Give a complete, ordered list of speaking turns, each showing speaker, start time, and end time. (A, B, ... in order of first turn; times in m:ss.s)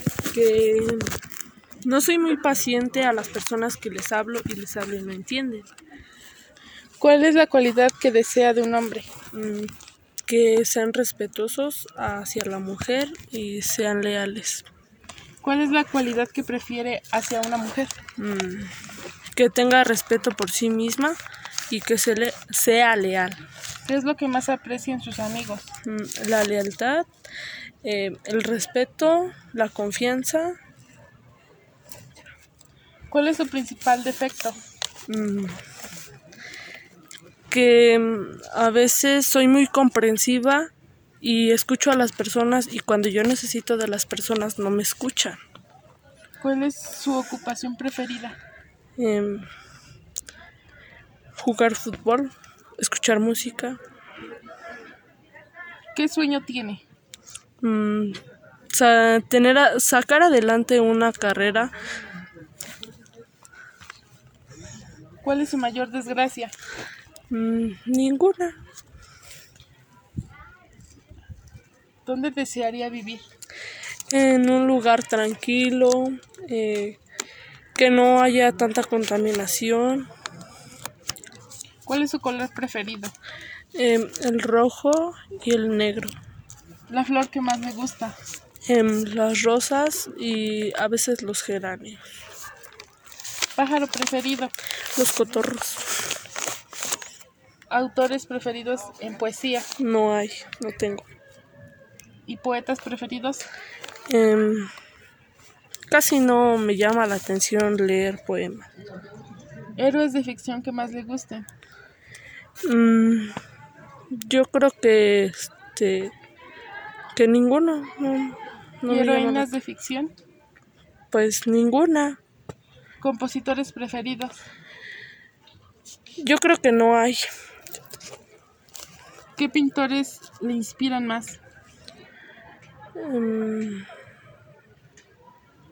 0:00.3-0:01.1 A
0:01.8-0:05.7 A
0:07.0-0:09.1 B
0:09.3-0:09.7 A
0:10.3-0:14.7 A
0:15.4-0:18.0 B
0:18.2-0:18.7 A
0:19.3-0:21.2 A
0:21.7-0:23.4 A
0:23.8-0:25.7 B
0:25.8-0:27.1 A
0:27.8-0:30.6 A
0:33.1-0:34.6 B
0:35.1-0:35.6 A
0:37.5-0:45.4 A
0:46.4-0:48.4 B
0:49.0-0:49.4 A
0:51.4-0:53.8 A
0:56.0-0:56.8 B
0:57.6-0:58.2 A
0:58.7-1:01.7 A
1:05.2-1:06.5 B
1:07.3-1:08.6 A
1:12.0-1:13.2 B
1:14.1-1:17.0 A
1:17.8-1:20.1 A
1:21.9-1:23.1 B
1:23.7-1:26.2 A
1:26.9-1:28.2 B
1:28.6-1:32.0 A
1:33.6-1:34.5 B
1:35.0-1:35.9 A
1:37.7-1:39.7 B
1:39.8-1:41.1 A
1:42.3-1:43.4 B
1:44.1-1:44.7 A
1:45.9-1:48.7 A
1:49.8-1:51.5 B
1:52.6-1:53.4 A
1:54.1-1:56.1 A
1:57.2-1:59.5 A
1:58.9-2:00.1 B
2:01.1-2:02.2 A
2:03.0-2:04.4 B
2:06.2-2:07.3 A
2:09.4-2:11.4 B
2:13.0-2:13.9 A